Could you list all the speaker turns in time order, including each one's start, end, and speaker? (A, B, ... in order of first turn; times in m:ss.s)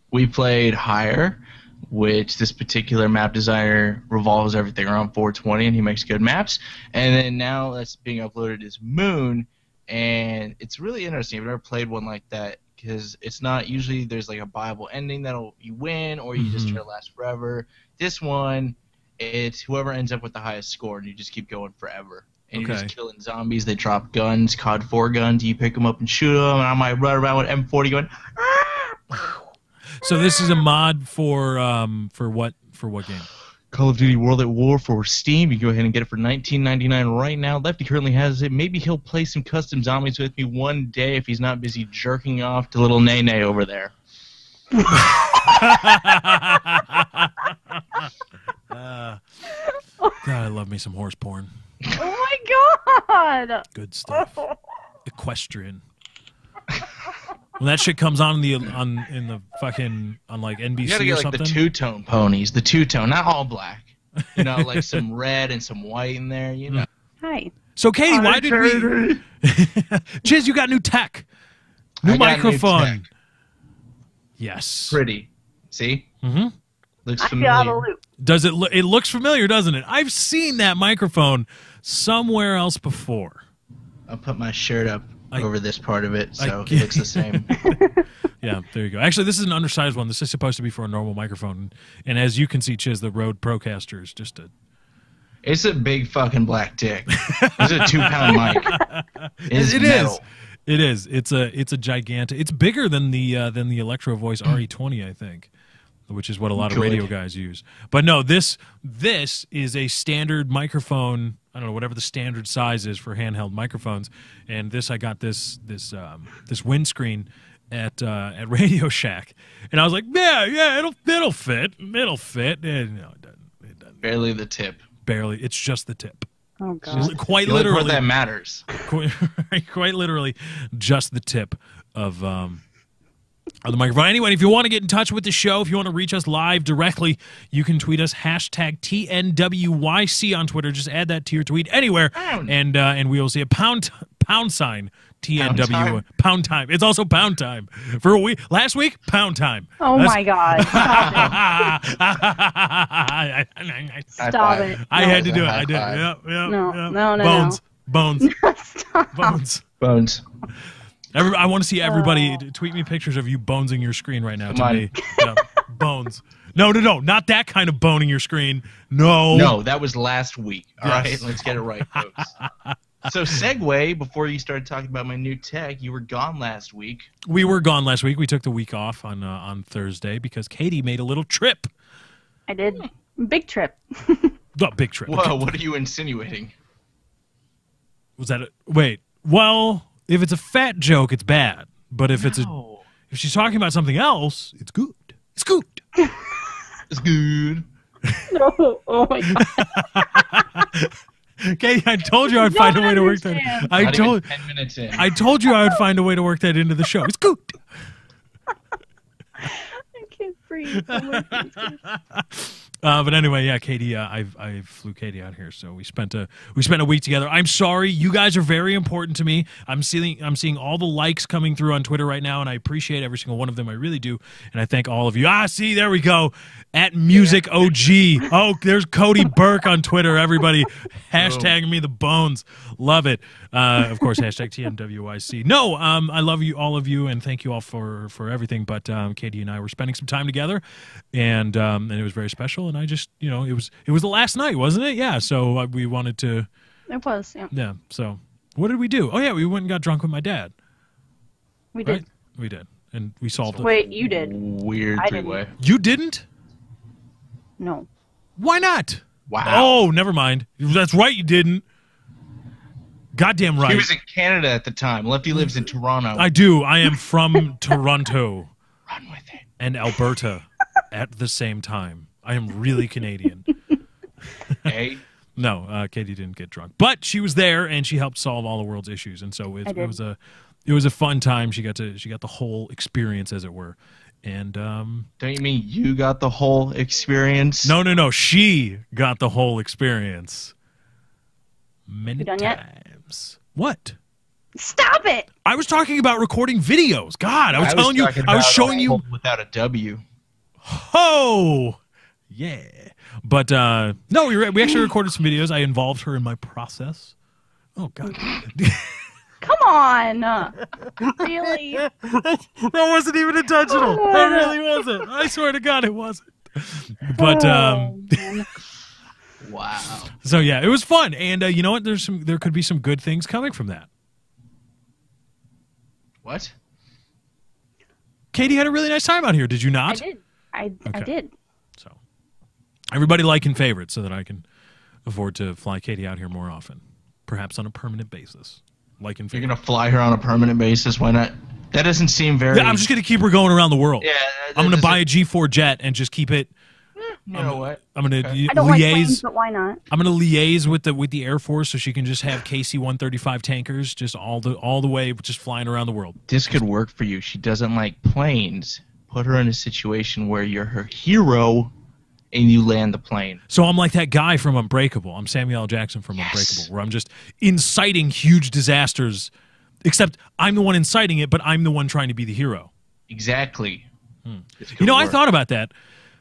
0:00.1-0:29.0 A
0:16.4-0:16.8 B
0:22.5-0:22.9 B
0:30.0-0:33.3 B
0:33.7-0:43.9 A
0:44.9-0:48.1 B
0:48.7-0:49.2 B
0:50.2-0:51.5 B
0:51.9-0:54.6 C
0:53.7-0:54.4 B
0:55.0-0:55.8 B
0:57.6-1:01.6 B
1:00.8-1:06.8 A
1:04.3-1:05.0 B
1:07.2-1:07.5 C
1:07.8-1:11.2 B
1:08.1-1:09.2 A
1:12.0-1:13.0 B
1:12.0-1:13.0 A
1:14.4-1:15.0 B
1:14.9-1:16.1 A
1:16.2-1:16.5 B
1:17.0-1:17.8 A
1:17.2-1:18.0 C
1:18.2-1:23.4 B
1:24.1-1:27.7 A
1:26.4-1:27.8 B
1:27.6-1:28.0 C
1:28.4-1:34.5 B
1:35.4-1:38.8 A
1:37.1-1:45.5 B
1:39.5-1:40.2 A
1:46.1-2:04.0 B
1:46.6-1:47.1 A
2:04.0-2:04.8 A
2:05.0-2:06.3 B
2:06.6-2:07.1 C
2:06.9-2:08.7 A
2:06.9-2:08.0 B
2:08.8-2:12.6 B
2:13.6-2:34.3 B
2:22.1-2:22.5 A
2:25.4-2:26.0 A
2:29.8-2:31.4 C
2:30.6-2:31.4 A
2:34.2-2:36.0 A
2:34.2-2:35.2 C
2:34.8-2:38.3 B
2:36.4-2:37.6 C
2:38.2-2:39.4 C
2:39.1-2:39.6 B
2:39.8-2:40.2 A
2:41.1-2:49.6 B
2:41.8-2:42.4 C
2:44.5-2:44.9 A
2:49.3-2:52.3 A
2:50.8-2:53.1 B
2:53.0-2:57.1 A
2:57.2-3:01.7 B
3:02.5-3:04.3 C
3:04.6-3:05.6 B
3:05.1-3:06.5 A
3:08.2-3:12.5 B
3:12.1-3:12.9 A
3:13.1-3:15.8 B
3:16.0-3:16.3 C
3:16.9-3:17.6 A
3:18.3-3:20.4 C
3:19.2-3:24.3 B
3:22.2-3:23.8 C
3:23.8-3:25.1 A
3:24.9-3:27.8 B
3:25.5-3:25.8 C
3:29.4-3:31.8 C
3:30.7-4:06.5 B
3:47.1-3:47.4 A
3:51.2-3:51.5 A
4:06.9-4:07.5 C
4:07.5-4:10.5 B
4:11.7-4:12.0 C
4:11.8-4:13.7 B
4:13.4-4:15.5 A
4:13.6-4:14.3 C
4:15.0-4:15.4 C
4:15.6-4:16.2 B
4:17.6-4:17.9 C
4:18.4-4:21.6 B
4:19.3-4:19.8 A
4:23.1-4:23.9 B
4:23.6-4:26.3 A
4:26.2-4:28.5 B
4:28.9-4:29.5 A
4:29.6-4:33.5 B
4:34.3-4:34.8 B
4:34.6-4:35.0 A
4:35.4-4:45.1 B
4:39.7-4:40.0 C
4:45.2-4:47.7 A
4:47.6-4:50.5 B
4:51.9-4:54.0 B
4:52.2-4:52.6 C
4:54.6-4:55.3 C
4:55.4-4:59.0 B
4:57.5-5:00.0 A
5:00.6-5:01.8 B
5:02.3-5:07.1 B
5:07.8-5:09.1 B
5:09.4-5:10.6 C
5:10.6-5:18.4 B
5:11.2-5:11.8 C
5:13.7-5:14.5 C
5:17.1-5:18.5 C
5:19.4-5:20.1 A
5:20.2-5:23.9 B
5:26.2-5:26.5 A
5:28.3-5:30.0 B
5:29.9-5:31.3 C
5:32.9-5:34.4 B
5:35.0-5:39.5 B
5:39.3-5:42.9 A
5:42.5-5:46.5 B
5:44.0-5:45.0 A
5:47.0-5:48.4 A
5:47.3-5:49.2 B
5:48.5-5:49.8 C
5:49.9-5:56.5 B
5:56.3-6:01.7 A
6:02.3-6:03.4 A
6:03.5-6:09.3 B
6:06.2-6:06.7 A
6:09.8-6:12.7 B
6:13.1-6:13.9 A
6:14.2-6:15.7 B
6:14.6-6:15.2 A